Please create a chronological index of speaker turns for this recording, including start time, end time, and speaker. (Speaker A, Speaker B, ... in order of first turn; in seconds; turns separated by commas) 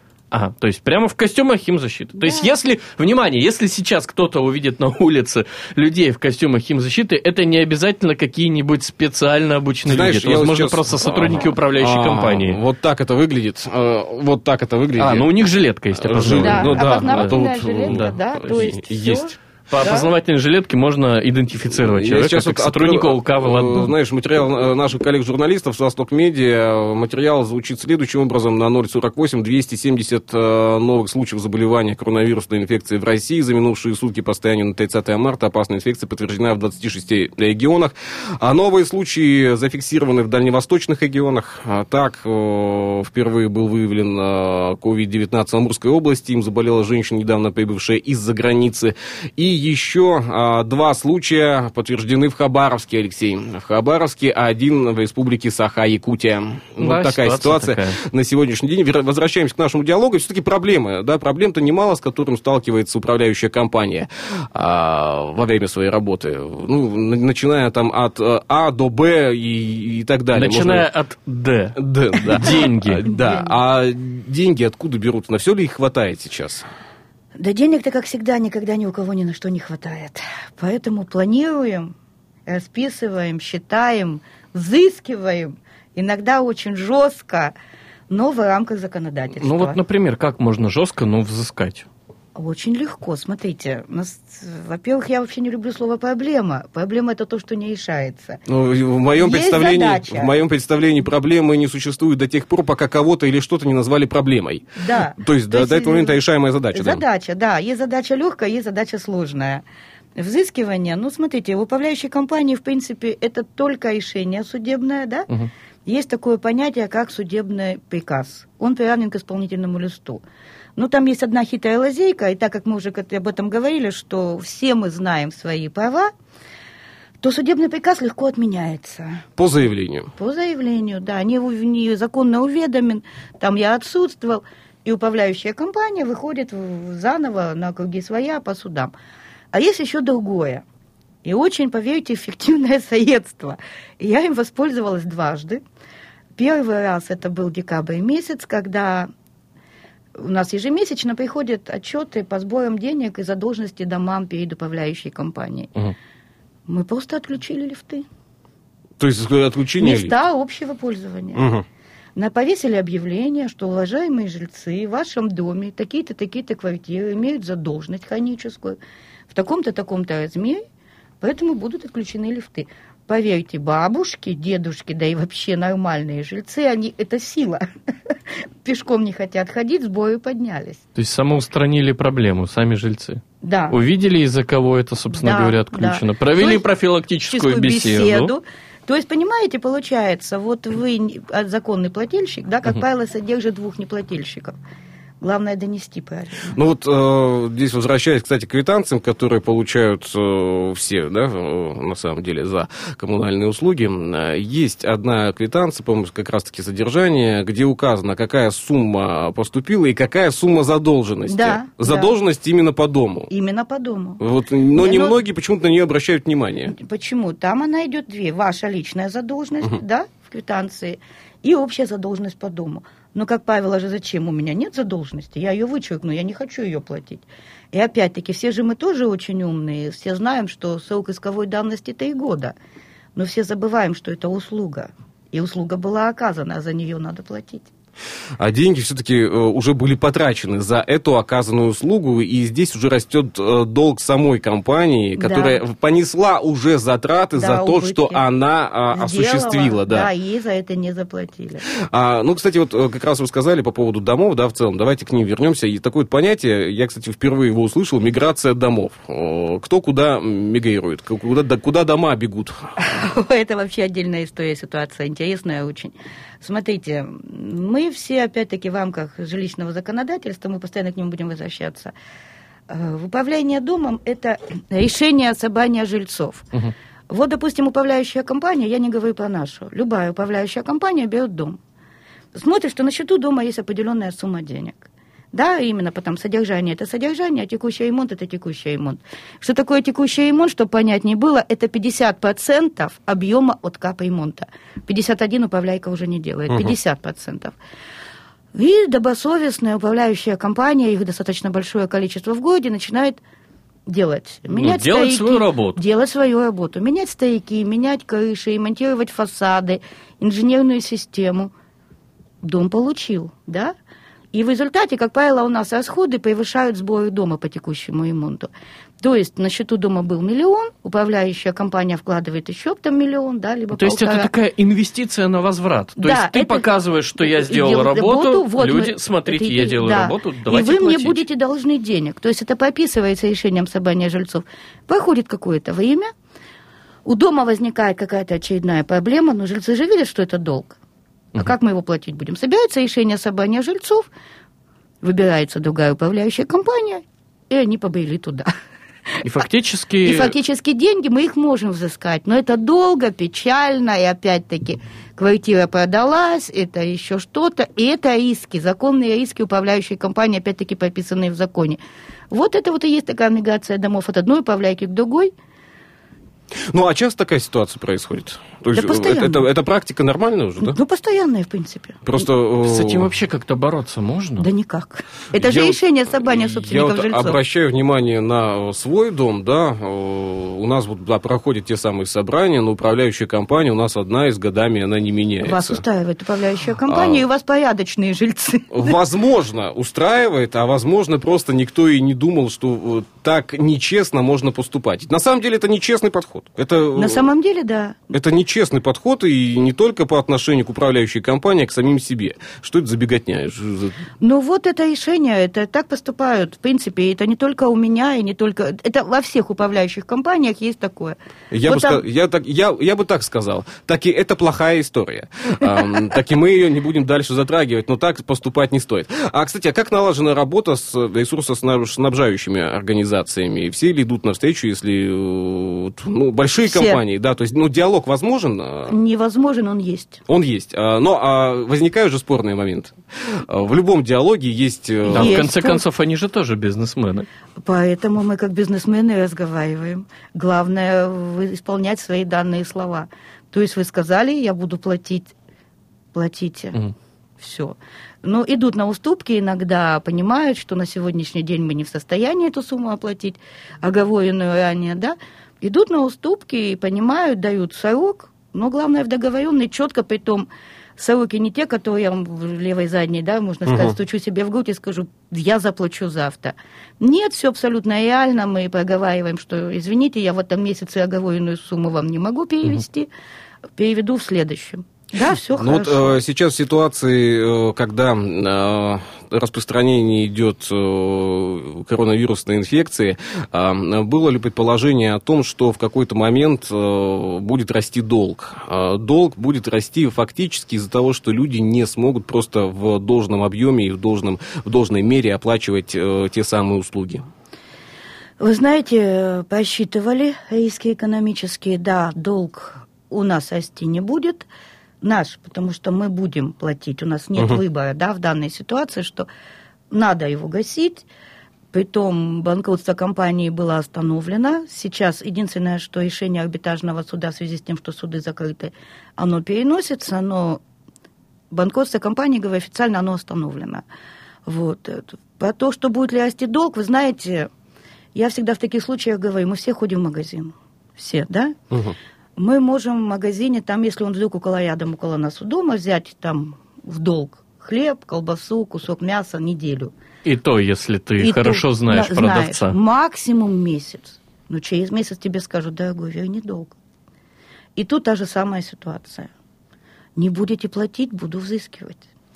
Speaker A: 0.3-12.6, Speaker B: 2.2-2.5, Speaker C: 9.8-15.3, Speaker A: 15.0-18.6, Speaker C: 15.9-19.2, Speaker B: 16.4-20.1, Speaker A: 19.7-23.9, Speaker C: 21.7-70.9, Speaker A: 56.8-58.0, Speaker A: 70.3-73.0, Speaker C: 71.8-76.7, Speaker B: 73.1-73.5, Speaker B: 77.4-81.9, Speaker B: 82.5-87.5, Speaker B: 88.1-89.8, Speaker A: 89.4-91.9, Speaker B: 92.3-98.4, Speaker C: 98.5-107.0, Speaker B: 99.2-100.3, Speaker B: 104.8-106.2, Speaker B: 106.7-109.6, Speaker B: 110.2-115.3, Speaker B: 115.8-120.2, Speaker B: 120.8-126.1, Speaker B: 127.2-129.2, Speaker C: 129.4-130.1, Speaker B: 130.2-138.9, Speaker B: 139.5-140.6, Speaker B: 141.2-145.6, Speaker B: 146.4-149.1, Speaker B: 150.2-155.7, Speaker B: 156.7-158.1, Speaker C: 159.0-160.1, Speaker B: 159.8-161.4, Speaker C: 161.3-161.6, Speaker B: 162.2-168.8, Speaker B: 169.3-170.6, Speaker B: 171.2-177.7, Speaker B: 178.3-180.8, Speaker A: 180.9-188.3, Speaker B: 183.4-183.8, Speaker B: 185.1-186.6, Speaker B: 187.3-194.6, Speaker B: 195.2-196.6, Speaker C: 196.5-213.3, Speaker B: 211.3-212.1, Speaker B: 213.3-214.2, Speaker C: 214.2-216.7, Speaker B: 214.7-215.2, Speaker B: 216.7-232.5, Speaker B: 233.1-237.7, Speaker C: 238.4-250.1, Speaker B: 245.2-245.6, Speaker B: 247.3-248.2, Speaker B: 248.9-251.6, Speaker C: 251.7-262.6, Speaker B: 262.8-271.9, Speaker B: 272.7-276.4, Speaker B: 277.1-281.6, Speaker B: 282.3-297.6, Speaker C: 296.5-296.7, Speaker B: 298.5-303.2, Speaker B: 303.9-311.5, Speaker A: 304.5-305.8, Speaker B: 312.4-313.7, Speaker B: 314.3-318.5, Speaker B: 319.0-324.3, Speaker A: 323.7-331.2, Speaker B: 326.0-326.7, Speaker B: 327.2-336.1, Speaker B: 337.0-340.8, Speaker B: 341.3-344.1, Speaker B: 345.0-348.5, Speaker A: 349.2-350.3, Speaker B: 350.0-361.8, Speaker B: 362.3-365.3, Speaker C: 366.7-370.8, Speaker B: 368.7-369.4, Speaker B: 370.6-372.1, Speaker C: 372.0-373.1, Speaker A: 372.6-374.5, Speaker B: 374.4-377.4, Speaker C: 375.3-385.8, Speaker B: 385.4-389.0, Speaker C: 386.9-387.2, Speaker C: 388.7-397.3, Speaker B: 396.9-398.1, Speaker C: 398.1-404.0, Speaker B: 404.2-412.0, Speaker C: 411.5-428.9, Speaker B: 426.6-427.0, Speaker B: 428.9-430.2, Speaker C: 430.3-435.4, Speaker A: 435.1-437.3, Speaker B: 435.1-435.8, Speaker B: 437.6-445.3, Speaker B: 446.1-446.8, Speaker B: 447.4-473.1, Speaker C: 463.7-463.9, Speaker B: 473.8-476.2, Speaker C: 475.6-497.2, Speaker B: 498.4-504.5, Speaker B: 505.0-509.3, Speaker B: 509.9-511.0, Speaker B: 511.7-520.6, Speaker B: 521.5-523.8, Speaker B: 524.5-527.5, Speaker B: 528.1-531.5, Speaker C: 531.7-532.0, Speaker B: 532.4-539.9, Speaker A: 540.2-542.7, Speaker B: 541.2-546.8, Speaker B: 547.8-549.3, Speaker B: 550.2-552.0